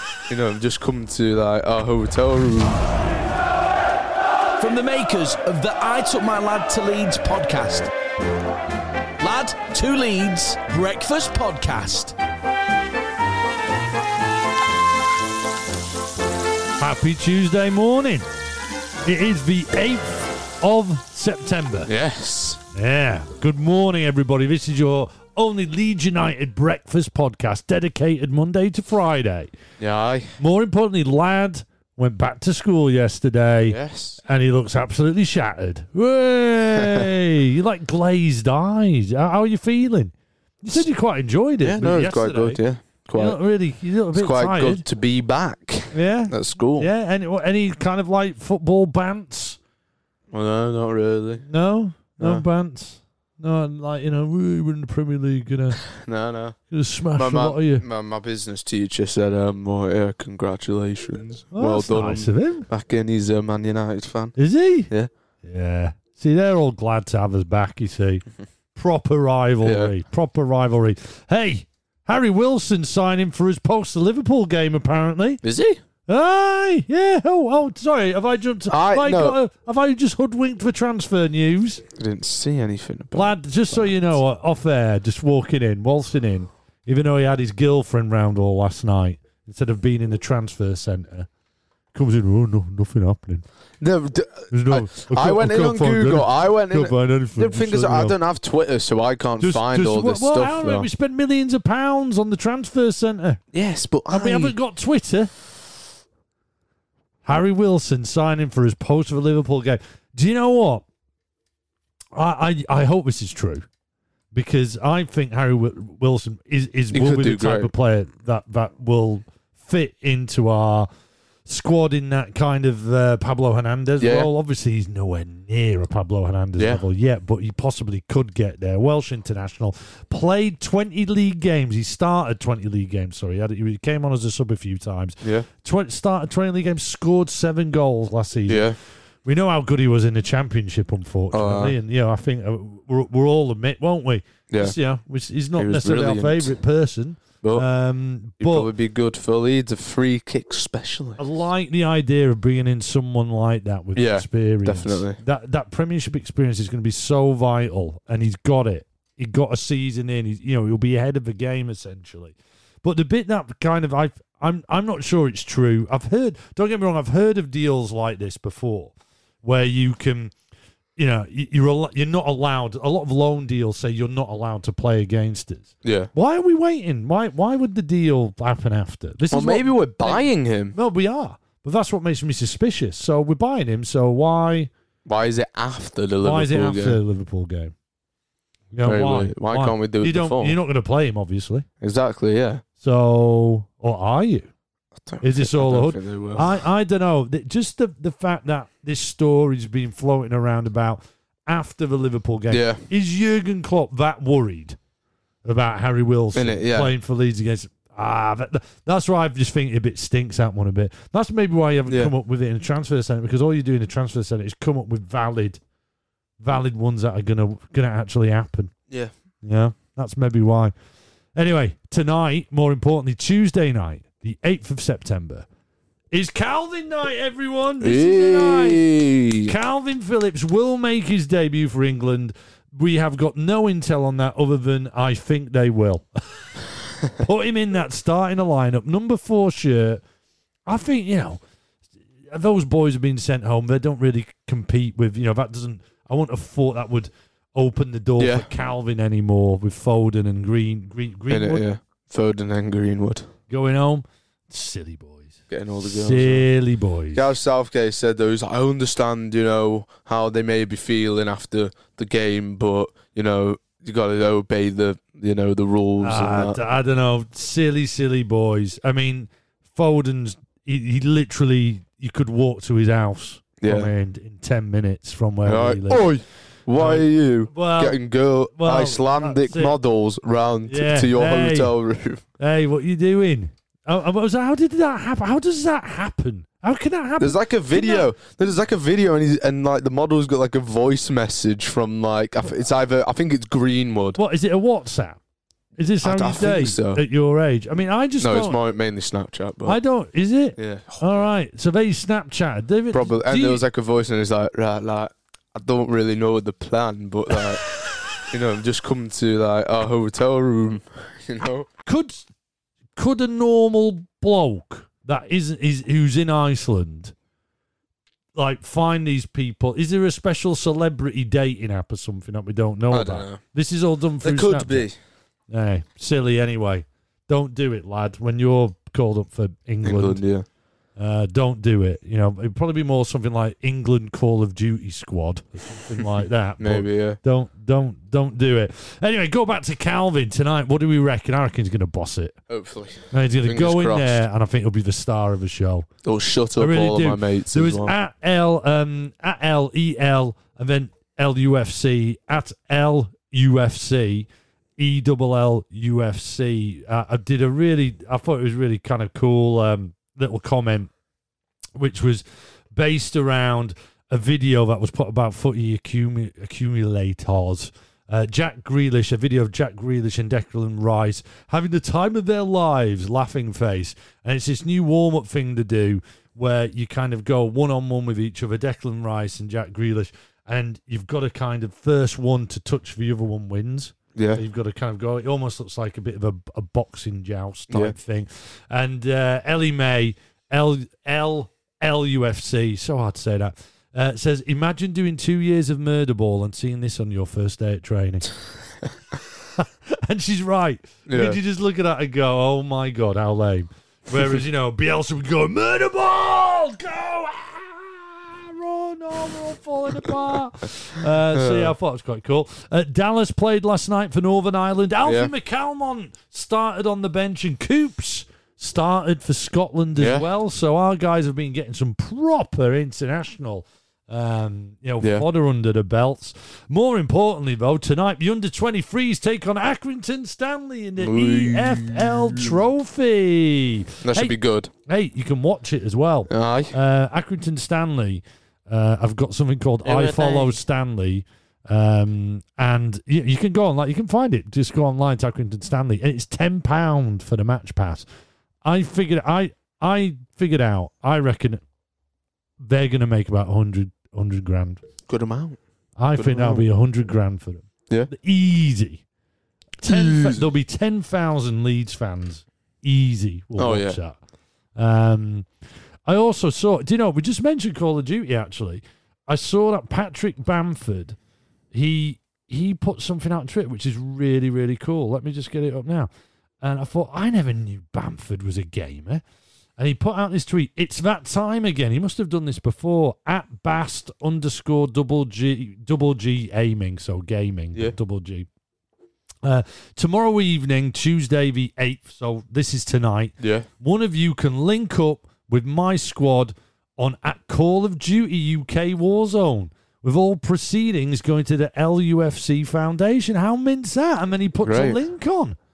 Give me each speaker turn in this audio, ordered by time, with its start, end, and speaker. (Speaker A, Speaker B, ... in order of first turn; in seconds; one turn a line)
Speaker A: 0.2-2.8
Speaker B: 4.6-7.9
Speaker B: 9.2-12.1
Speaker C: 16.8-18.3
Speaker C: 19.0-21.9
Speaker A: 21.9-22.6
Speaker C: 22.7-29.5
Speaker A: 29.8-30.4
Speaker C: 30.4-42.6
Speaker A: 33.7-34.2
Speaker A: 36.8-37.1
Speaker A: 41.6-43.4
Speaker C: 43.1-44.8
Speaker A: 44.1-46.9
Speaker C: 45.9-49.6
Speaker A: 50.3-51.4
Speaker C: 51.5-55.8
Speaker A: 52.2-52.4
Speaker A: 55.9-56.6
Speaker C: 56.7-57.8
Speaker A: 57.1-64.4
Speaker C: 61.5-62.7
Speaker C: 64.4-64.9
Speaker C: 65.4-68.2
Speaker C: 68.8-75.4
Speaker A: 69.6-69.9
Speaker A: 75.4-75.8
Speaker C: 76.1-81.8
Speaker A: 78.7-79.4
Speaker A: 81.9-84.2
Speaker C: 83.1-91.3
Speaker C: 91.9-93.5
Speaker A: 93.8-100.9
Speaker C: 94.5-98.2
Speaker C: 99.4-103.4
Speaker A: 103.5-104.5
Speaker C: 104.1-105.3
Speaker C: 107.2-110.8
Speaker C: 112.2-113.7
Speaker C: 114.3-120.9
Speaker A: 116.9-117.7
Speaker C: 121.5-148.7
Speaker A: 124.0-124.3
Speaker A: 138.5-138.8
Speaker A: 141.3-141.8
Speaker A: 144.5-144.8
Speaker A: 145.6-146.6
Speaker A: 148.4-151.2
Speaker C: 151.2-170.3
Speaker A: 153.9-155.2
Speaker C: 171.0-184.7
Speaker A: 175.8-176.1
Speaker A: 179.3-180.8
Speaker A: 185.1-187.0
Speaker C: 186.2-187.7
Speaker C: 188.7-191.7
Speaker A: 188.8-190.6
Speaker A: 191.8-192.6
Speaker C: 192.8-194.5
Speaker A: 195.1-196.6
Speaker C: 195.2-204.8
Speaker A: 202.5-202.8
Speaker C: 205.4-215.6
Speaker A: 206.3-206.9
Speaker A: 211.9-212.1
Speaker C: 216.4-218.7
Speaker C: 219.4-220.7
Speaker C: 221.3-225.5
Speaker C: 226.1-228.8
Speaker A: 227.8-229.5
Speaker C: 229.4-236.5
Speaker C: 237.1-240.0
Speaker C: 240.7-241.4
Speaker C: 242.3-251.6
Speaker A: 248.2-248.5
Speaker A: 251.3-253.3
Speaker C: 253.5-257.2
Speaker A: 255.5-256.4
Speaker A: 257.1-266.6
Speaker C: 266.0-276.1
Speaker A: 273.6-273.9
Speaker A: 275.4-282.2
Speaker C: 276.8-278.0
Speaker C: 278.6-279.8
Speaker C: 280.7-281.7
Speaker C: 282.4-288.1
Speaker A: 287.2-294.2
Speaker C: 294.2-295.2
Speaker C: 295.8-298.6
Speaker A: 296.0-297.0
Speaker A: 298.2-299.8
Speaker C: 299.6-303.6
Speaker A: 300.6-301.2
Speaker A: 302.9-307.6
Speaker A: 308.3-311.7
Speaker C: 311.9-312.3
Speaker C: 312.9-317.1
Speaker C: 318.3-324.9
Speaker A: 322.9-323.4
Speaker A: 324.2-324.9
Speaker C: 325.5-330.2
Speaker A: 329.8-330.4
Speaker C: 331.0-342.4
Speaker A: 336.6-337.2
Speaker A: 342.5-344.2
Speaker C: 343.1-345.9
Speaker A: 346.0-347.9
Speaker C: 346.6-360.9
Speaker C: 361.8-398.3
Speaker A: 384.1-384.4
Speaker A: 387.7-387.9
Speaker C: 399.6-434.3
Speaker A: 401.1-401.4
Speaker A: 404.1-404.4
Speaker A: 411.3-411.7
Speaker A: 415.0-415.3
Speaker A: 420.0-420.2
Speaker A: 425.0-425.2
Speaker A: 431.0-432.6
Speaker A: 434.0-434.7
Speaker C: 434.9-448.0
Speaker A: 436.3-436.7
Speaker A: 439.8-440.6
Speaker C: 448.6-451.6
Speaker C: 452.6-454.8
Speaker A: 455.1-455.6
Speaker C: 456.0-459.0
Speaker A: 456.1-456.6
Speaker C: 459.8-464.2
Speaker A: 459.8-460.4
Speaker A: 463.6-464.0
Speaker C: 464.8-465.5
Speaker C: 466.1-471.1
Speaker C: 471.7-476.1
Speaker C: 476.6-479.2
Speaker C: 479.8-488.5
Speaker C: 489.4-505.6
Speaker A: 493.4-493.7
Speaker A: 504.6-505.0